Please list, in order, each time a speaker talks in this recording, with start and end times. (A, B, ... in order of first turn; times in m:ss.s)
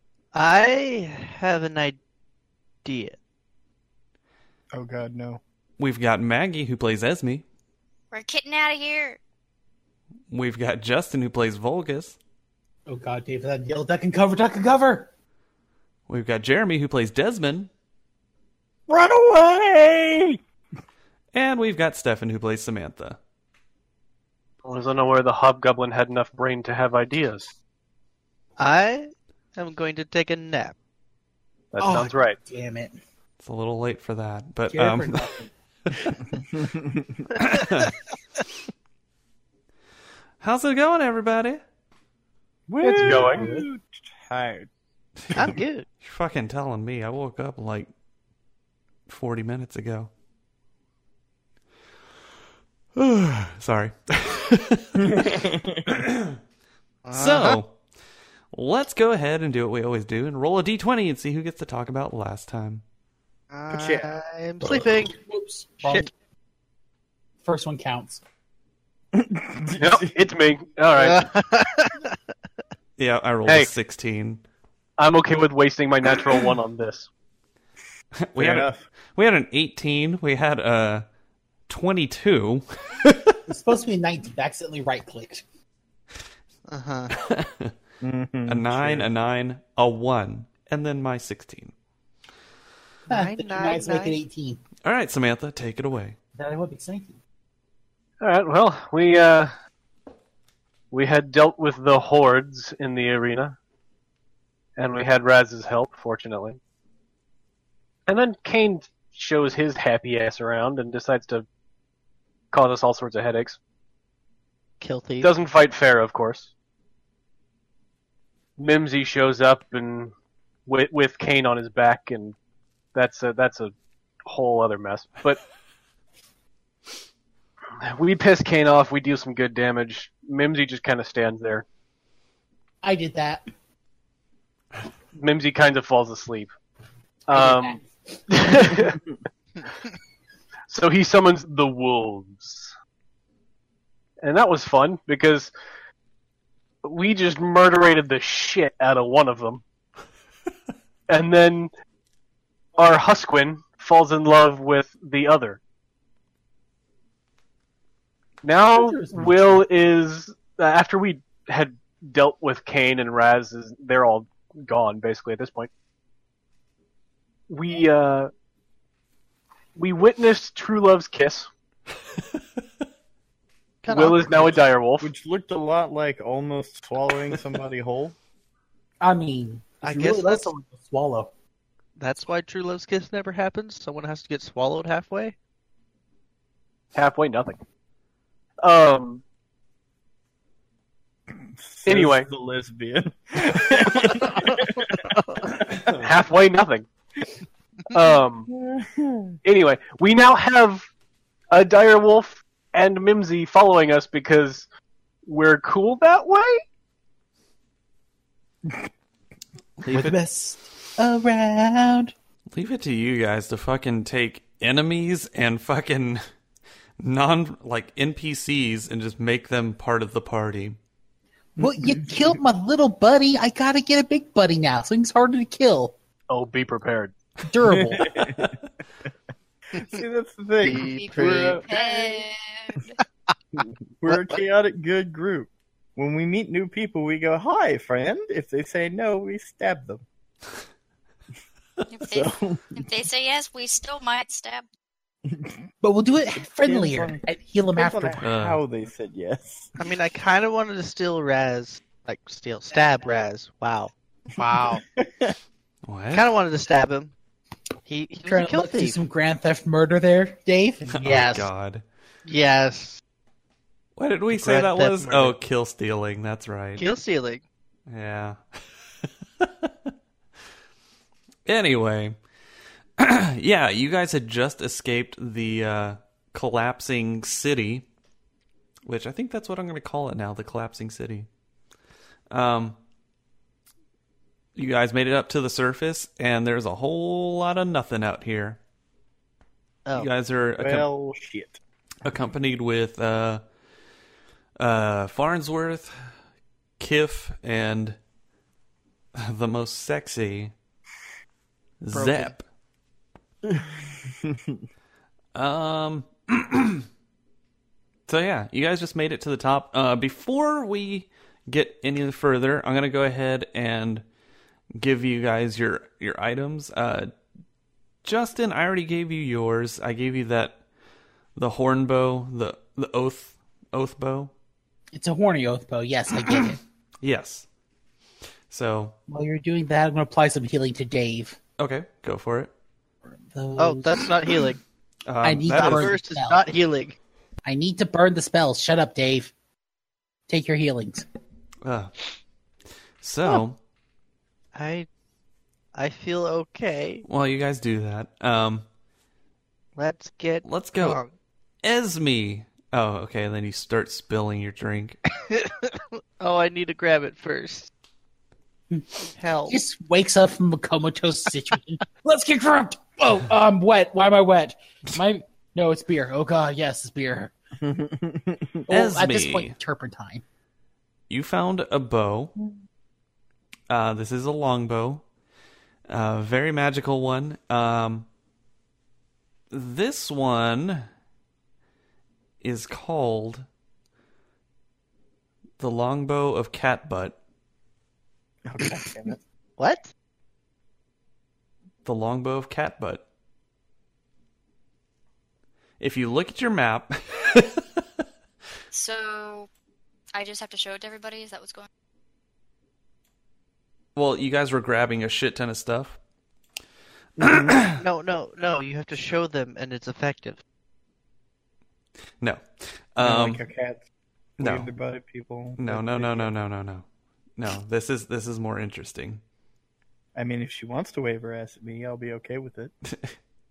0:00.3-0:02.0 A
0:02.8-0:03.2 A
0:04.7-0:05.4 B
0:05.8-0:07.4 C
0:08.1-0:09.2 D
0:10.3-0:12.2 C
0:12.9-0:15.1 E
0:16.1-0:17.7 C
0:18.9-0:20.4 B
0:21.3-0:23.2 C
0:24.6-0:27.5 F
0:28.6-0:30.8 A
0:31.7-0:32.4 F
0:31.8-0:33.0 E
0:33.4-0:35.3 C
0:34.7-0:35.5 E
0:36.5-0:37.3 B
0:37.3-0:37.9 C
0:40.4-0:41.6 C
0:42.7-0:44.7 B
0:42.8-0:43.7 F
0:45.3-0:45.9 A
0:46.0-0:47.9 C
0:49.1-0:50.1 C
0:53.0-0:55.2 C
0:55.0-0:56.0 B
0:56.1-0:56.3 C
0:57.0-0:57.6 A
0:57.1-0:57.8 C
0:58.5-1:02.8 C
1:03.5-1:05.2 A
1:03.7-1:04.1 B
1:05.1-1:06.1 E
1:07.4-1:08.2 E
1:09.1-1:10.1 B
1:09.8-1:11.2 F
1:11.0-1:12.2 A
1:13.0-1:14.4 C
1:15.0-1:17.1 F
1:18.2-1:21.0 C
1:18.4-1:18.8 B
1:21.7-1:23.4 C
1:23.5-1:25.4 E
1:26.7-1:27.1 A
1:27.1-1:27.7 C
1:28.0-1:29.1 B
1:28.5-1:31.7 C
1:33.1-1:34.2 A
1:33.1-1:34.6 E
1:34.8-1:36.2 C
1:36.4-1:37.2 E
1:38.2-1:39.5 F
1:40.9-1:43.6 F
1:44.8-1:46.6 F
1:48.1-1:51.4 F
1:52.5-1:53.6 F
1:54.8-1:55.3 A
1:55.2-1:56.5 F
1:58.6-2:00.1 F
2:00.6-2:02.3 F
2:02.9-2:03.7 F
2:04.2-2:05.4 F
2:07.8-2:11.6 F
2:12.8-2:13.4 E
2:15.1-2:16.5 F
2:17.3-2:19.0 F
2:17.3-2:17.9 E
2:20.7-2:22.7 F
2:24.2-2:25.5 F
2:26.8-2:29.6 F
2:31.1-2:31.7 F
2:32.8-2:35.6 F
2:38.4-2:45.7 F
2:38.7-2:39.6 E
2:47.5-2:48.3 F
2:49.8-2:51.5 F
2:53.8-2:54.6 A
2:53.9-2:55.1 F
2:55.0-2:58.1 B
2:59.0-3:01.3 E
2:59.8-3:00.4 A
3:02.0-3:05.4 A
3:06.9-3:07.6 F
3:08.6-3:09.2 F
3:11.3-3:15.1 B
3:11.8-3:12.3 F
3:14.4-3:15.6 A
3:16.0-3:16.9 F
3:17.9-3:18.5 F
3:18.5-3:19.4 B
3:19.4-3:20.9 F
3:21.5-3:24.6 F
3:25.2-3:26.6 F
3:29.8-3:30.2 C
3:29.9-3:32.1 E
3:32.5-3:36.2 C
3:37.0-3:40.8 C
3:41.6-3:45.9 E
3:41.6-3:42.4 B
3:46.3-3:47.1 F
3:47.4-3:48.3 E
3:47.6-3:48.5 B
3:49.8-3:52.2 B
3:50.6-3:51.6 A
3:50.7-3:52.9 D
3:53.6-4:00.0 B
3:54.1-3:54.4 A
4:01.9-4:04.6 D
4:02.1-4:02.9 B
4:05.3-4:05.6 B
4:05.8-4:08.2 E
4:06.3-4:09.7 B
4:08.2-4:08.6 C
4:09.8-4:13.9 A
4:14.4-4:14.8 E
4:15.0-4:15.3 B
4:15.8-4:16.3 C
4:16.1-4:17.1 A
4:17.8-4:19.0 A
4:18.2-4:21.5 E
4:20.9-4:21.8 C
4:22.2-4:23.0 A
4:24.0-4:26.9 C
4:24.3-4:25.3 A
4:26.8-4:27.4 A
4:27.9-4:28.4 C
4:29.0-4:29.9 C
4:31.4-4:32.2 C
4:33.0-4:37.8 C
4:38.8-4:41.3 C
4:42.3-4:42.8 C
4:44.6-4:48.6 C
4:49.9-4:50.9 C
4:50.6-4:51.6 B
4:52.0-4:53.4 C
4:54.6-4:55.9 C
4:56.8-4:58.0 C
4:59.2-5:00.5 C
5:01.8-5:02.4 C
5:01.9-5:02.3 A
5:03.4-5:04.6 B
5:05.3-5:06.8 C
5:08.1-5:14.0 C
5:14.7-5:17.1 C
5:18.0-5:20.6 C
5:21.4-5:24.3 C
5:24.9-5:26.6 E
5:27.0-5:27.5 C
5:28.5-5:29.0 C
5:29.1-5:31.4 E
5:31.6-5:32.5 C
5:33.3-5:34.4 E
5:33.6-5:34.6 A
5:35.1-5:36.0 C
5:35.2-5:36.4 E
5:35.5-5:37.0 A
5:37.4-5:39.3 E
5:40.3-5:41.0 E
5:41.6-5:41.9 C
5:43.0-5:43.6 C
5:44.5-5:44.9 A
5:45.7-5:47.0 A
5:47.0-5:48.6 C
5:49.8-5:51.1 A
5:50.4-5:51.0 C
5:51.6-5:55.0 C
5:55.2-5:57.7 A
5:59.1-5:59.6 A
5:59.5-6:07.3 E
6:07.6-6:08.6 B
6:08.7-6:10.2 E
6:08.7-6:09.5 C
6:11.1-6:12.3 C
6:13.7-6:15.0 C
6:15.9-6:18.1 C
6:19.5-6:20.9 C
6:22.4-6:23.4 C
6:25.6-6:27.2 C
6:28.5-6:29.2 B
6:29.6-6:29.9 A
6:31.8-6:33.0 C
6:35.8-6:37.6 C
6:38.7-6:39.5 D
6:40.1-6:41.7 D
6:44.0-6:46.0 C
6:47.2-6:47.6 B
6:47.2-6:47.8 C
6:47.6-6:50.4 A
6:52.2-6:53.4 C
6:53.0-6:53.8 B
6:54.4-6:54.7 C
6:54.4-6:56.3 B
6:55.6-6:56.8 C
6:57.4-6:59.2 C
7:00.1-7:02.7 B
7:02.8-7:03.2 C